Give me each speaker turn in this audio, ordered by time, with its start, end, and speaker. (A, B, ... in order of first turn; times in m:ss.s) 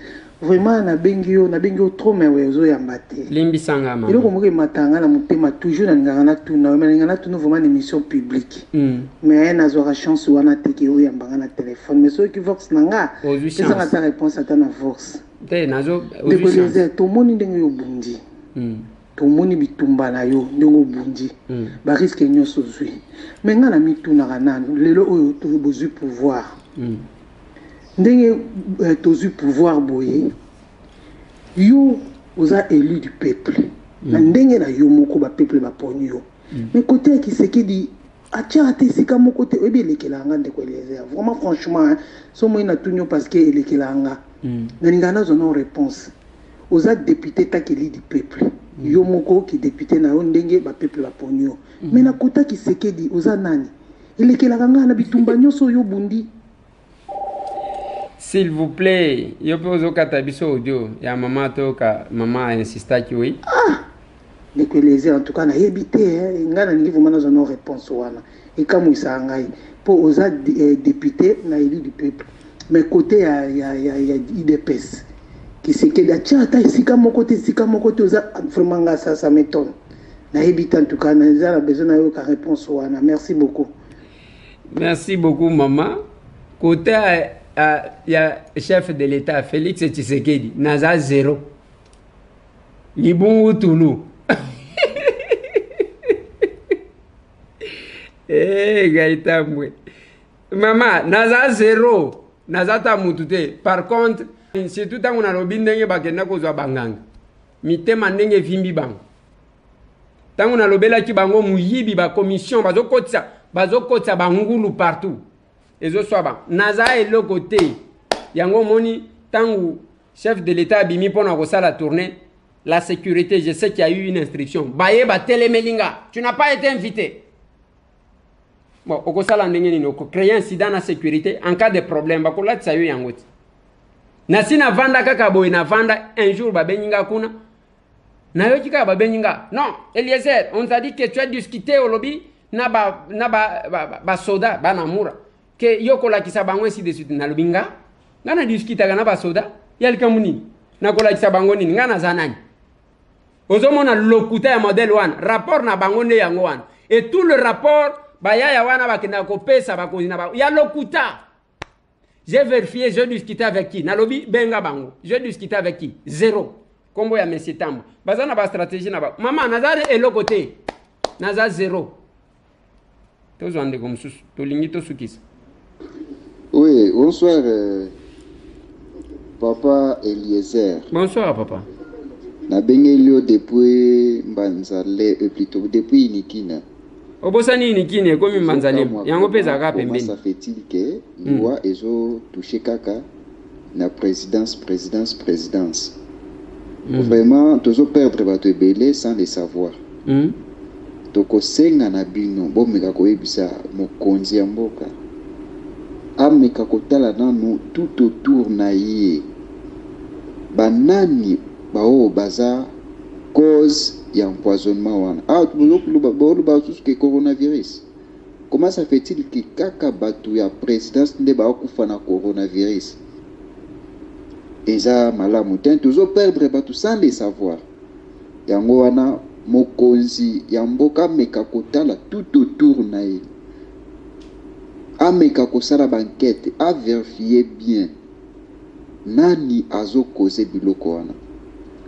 0:00.4-0:03.3 A
0:03.3-0:04.3 B
0:04.1-0:08.7 A
0:08.7-0:09.1 B
0:09.2-0:15.2 A
0:13.2-0:13.9 B
0:15.4-0:16.8 B
0:16.3-0:18.2 A
0:18.6-0:18.9 B
0:19.2-0:26.6 A
0:21.5-0:21.8 B
0:26.8-0:27.1 B
0:28.0-0:30.3 A
0:31.6-0:44.2 A
0:34.0-0:34.3 B
0:44.4-0:44.7 B
0:44.8-0:46.1 A
0:46.7-0:56.3 A
0:51.8-0:52.1 B
0:58.2-1:03.4 B
1:03.5-1:03.9 A
1:04.6-1:15.1 A
1:15.6-1:19.8 A
1:20.3-1:23.7 A
1:24.7-1:26.0 B
1:26.6-1:31.5 B
1:33.0-1:35.6 B
1:38.3-1:39.8 B
1:40.5-1:47.0 B
1:47.6-1:49.0 B
1:50.4-1:55.2 B
1:55.8-2:07.3 B
2:08.8-2:13.3 B
2:14.3-2:17.4 B
2:18.3-2:32.4 B
2:33.5-2:41.2 B
2:42.3-2:50.6 B
2:51.2-2:52.0 B
2:53.4-2:55.2 B
2:56.5-2:57.9 C
2:59.4-3:00.9 C
3:00.9-3:01.7 B
3:02.5-3:06.6 C
3:07.2-3:10.1 B
3:08.3-3:13.1 C
3:11.2-3:11.5 B
3:13.7-3:16.0 C
3:16.9-3:17.2 B
3:17.0-3:19.8 C
3:20.1-3:20.4 B
3:21.1-3:24.9 C
3:26.2-3:29.3 C
3:30.5-3:32.7 C
3:33.3-3:37.8 C
3:38.5-3:43.0 C
3:44.7-3:47.6 C
3:48.5-3:53.2 C
3:55.0-3:57.9 C
3:59.0-4:01.2 C